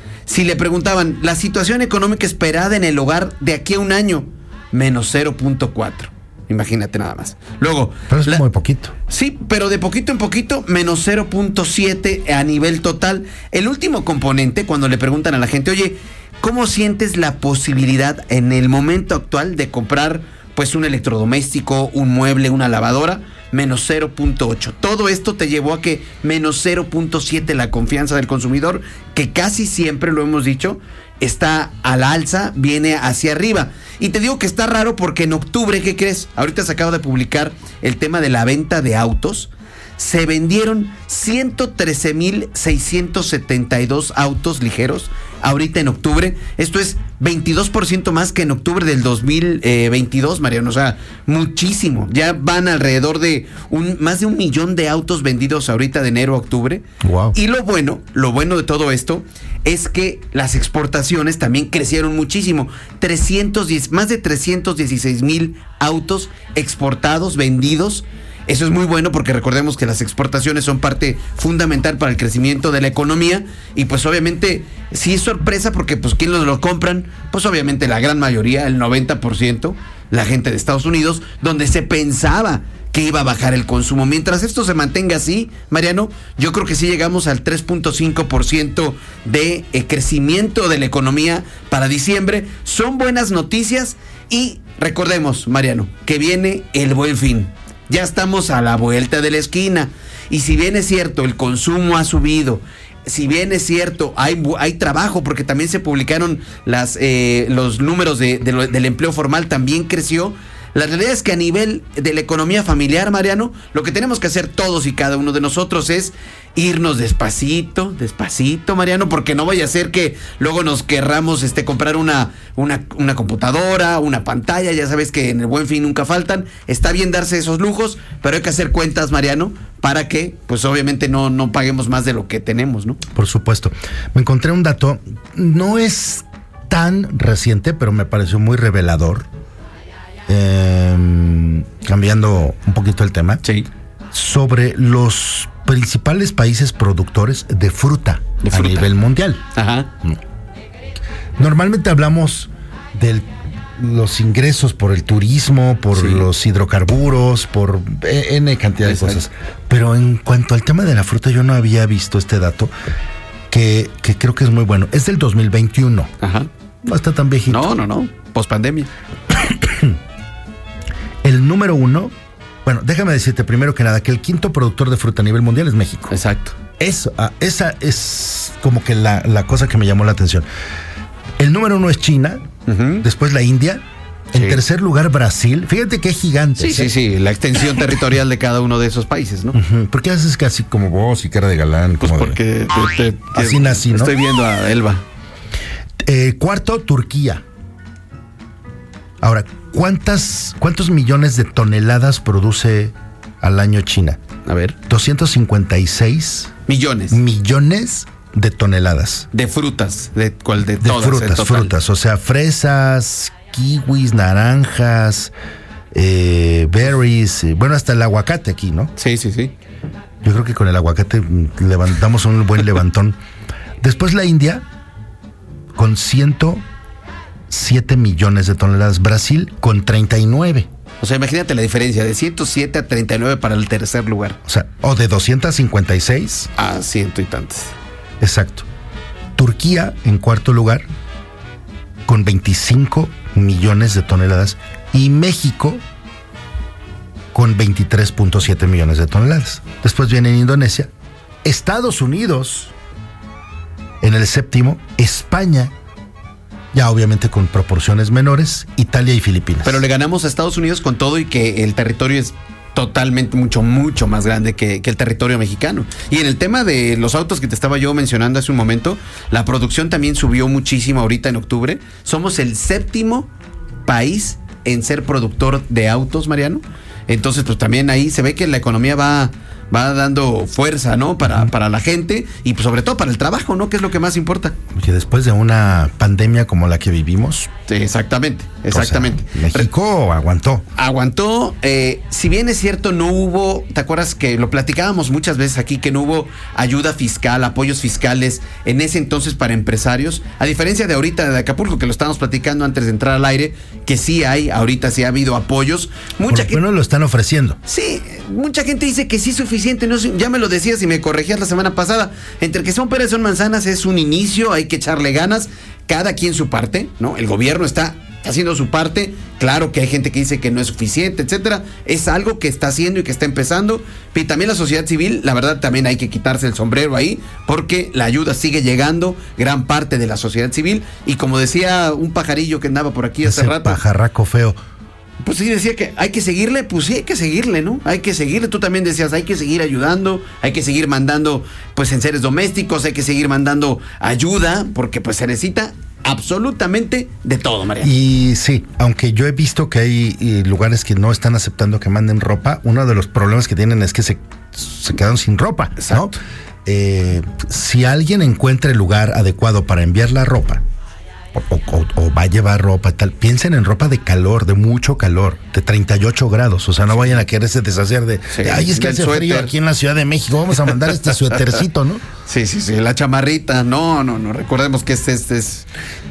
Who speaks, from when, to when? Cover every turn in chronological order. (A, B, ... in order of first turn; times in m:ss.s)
0:00.3-0:08.4 A
0:08.1-0:08.9 B
0:09.1-2:13.0 A
0:57.0-0:57.4 B
2:13.2-2:19.3 B
2:20.3-2:23.4 B
2:23.4-2:23.7 A
2:24.1-2:29.4 B
2:28.4-2:28.9 A
2:29.5-2:29.9 A
2:31.4-2:33.2 B
2:33.8-2:42.7 B
2:35.9-2:36.3 A
2:38.9-2:39.2 A
2:43.5-2:46.1 B
2:46.2-2:46.5 A
2:46.8-2:47.7 B
2:47.5-2:48.9 A
2:49.3-2:50.0 B
2:51.2-2:52.1 B
2:52.6-2:56.1 B
2:56.1-2:56.6 A
2:56.8-3:00.5 B
3:01.4-3:02.4 B
3:02.7-3:03.0 A
3:03.0-3:06.9 B
3:04.4-3:04.6 A
3:06.6-3:09.6 A
3:09.5-3:12.4 B
3:12.0-3:15.0 A
3:13.3-3:14.1 B
3:16.0-3:17.4 B
3:19.2-3:24.2 B
3:24.5-3:24.8 A
3:24.9-3:26.5 B
3:26.7-3:27.2 A
3:27.1-3:29.3 B
3:29.3-3:31.7 A
3:30.8-3:35.3 B
3:35.9-3:38.9 B
3:39.0-3:39.5 A
3:40.2-3:43.2 B
3:43.8-3:44.6 B
3:45.8-3:46.6 B
3:47.5-3:50.7 B
3:51.0-3:54.4 A
3:54.5-3:56.5 B
3:56.6-3:57.7 A
3:58.2-3:58.7 B
3:59.4-4:00.8 B
4:02.1-4:05.8 B
4:07.3-4:10.9 B
4:11.4-4:12.7 B
4:14.0-4:15.7 B
4:16.7-4:19.8 B
4:19.6-4:33.3 A
4:33.9-4:44.6 A
4:44.7-4:47.5 B
4:47.7-4:49.7 A
4:48.7-4:50.6 B
4:50.8-5:06.6 A
5:06.3-5:07.6 B
5:07.6-5:33.8 A
5:33.2-5:34.6 B
5:35.2-5:47.9 A
5:47.8-6:00.6 B
5:55.8-5:56.2 A
6:01.4-6:12.0 B
6:06.9-6:07.2 A
6:08.3-6:09.5 A
6:10.7-6:11.6 A
6:12.3-6:15.7 A